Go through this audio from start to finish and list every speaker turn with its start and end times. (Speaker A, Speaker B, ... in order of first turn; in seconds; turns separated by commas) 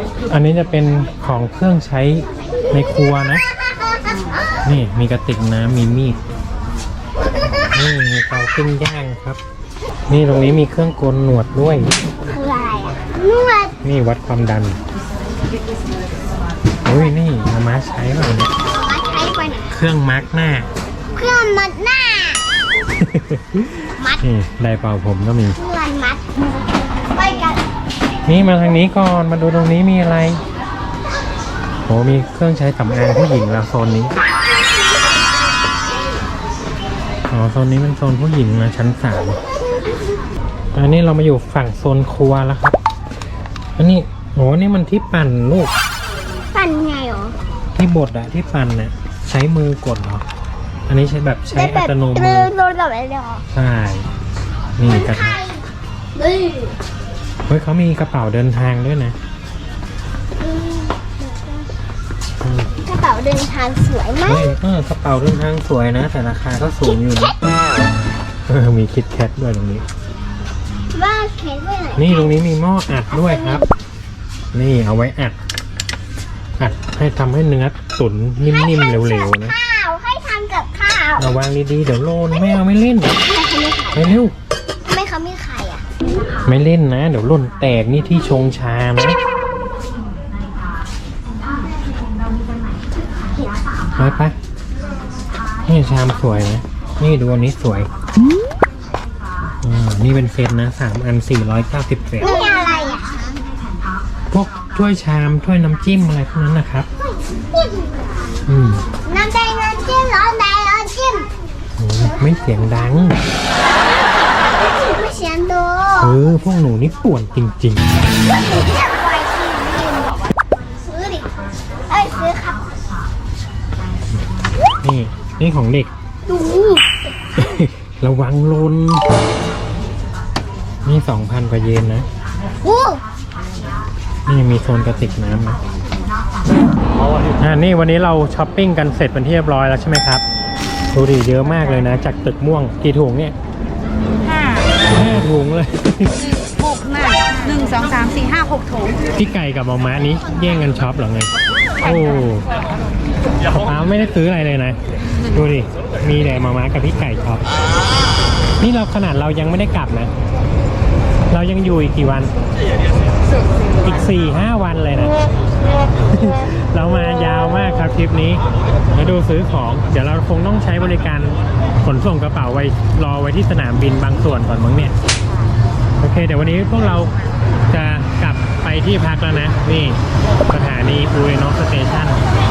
Speaker A: 0.3-3.4, Speaker B: 4.0-4.4, Speaker A: 4.6-6.2, Speaker A: 7.5-9.4, Speaker A: 10.1-11.9, Speaker C: 12.2-13.8, Speaker A: 13.8-14.8, Speaker A: 16.8-18.5, Speaker C: 18.7-19.7, Speaker A: 19.7-20.7, Speaker C: 21.1-22.4, Speaker A: 23.0-25.6, Speaker C: 24.0-24.2, Speaker C: 25.6-27.6, Speaker A: 28.3-30.4, Speaker A: 31.9-34.1, Speaker A: 37.3-39.4, Speaker A: 40.7-42.8, Speaker A: 43.8-45.7, Speaker C: 46.5-47.3, Speaker A: 47.7-50.2, Speaker A: 50.9-52.5, Speaker C: 51.5-53.4, Speaker A: 53.5-54.1, Speaker A: 54.8-55.4, Speaker C: 54.8-55.6, Speaker C: 56.1-56.7, Speaker A: 57.5-59.1, Speaker C: 60.4-61.7, Speaker A: 62.4-62.7, Speaker C: 62.8-64.5, Speaker A: 64.2-67.3, Speaker A: 68.5-69.8, Speaker C: 70.9-72.4, Speaker A: 72.0-73.6, Speaker C: 73.1-73.7, Speaker A: 74.5-75.4, Speaker A: 76.6-79.5, Speaker C: 78.9-81.3, Speaker A: 81.2-83.2, Speaker C: 83.2-84.2, Speaker A: 83.9-84.3, Speaker C: 84.8-85.8, Speaker A: 86.4-89.2, Speaker A: 94.0-94.3, Speaker A: 95.6-97.9, Speaker A: 99.6-102.4, Speaker C: 102.2-103.4, Speaker A: 104.3-106.9, Speaker C: 107.0-108.3, Speaker A: 108.5-108.9, Speaker C: 109.0-111.3, Speaker A: 111.8-113.2, Speaker C: 113.7-116.2, Speaker A: 116.0-117.9, Speaker C: 118.2-121.3, Speaker C: 121.9-122.7, Speaker A: 124.8-125.9, Speaker C: 126.3-127.0, Speaker A: 127.4-129.0, Speaker A: 130.8-132.1, Speaker C: 132.6-133.0, Speaker A: 134.3-135.6, Speaker A: 137.4-140.2, Speaker A: 140.9-143.3, Speaker B: 144.2-144.7, Speaker A: 144.9-146.3, Speaker B: 146.2-149.0, Speaker A: 149.2-152.5, Speaker B: 151.8-152.3, Speaker A: 153.5-154.8, Speaker A: 155.3-157.4, Speaker A: 158.6-160.1, Speaker A: 161.3-162.3, Speaker A: 163.8-165.1, Speaker A: 166.1-168.4, Speaker A: 168.9-174.9, Speaker A: 176.0-177.1, Speaker A: 177.7-182.2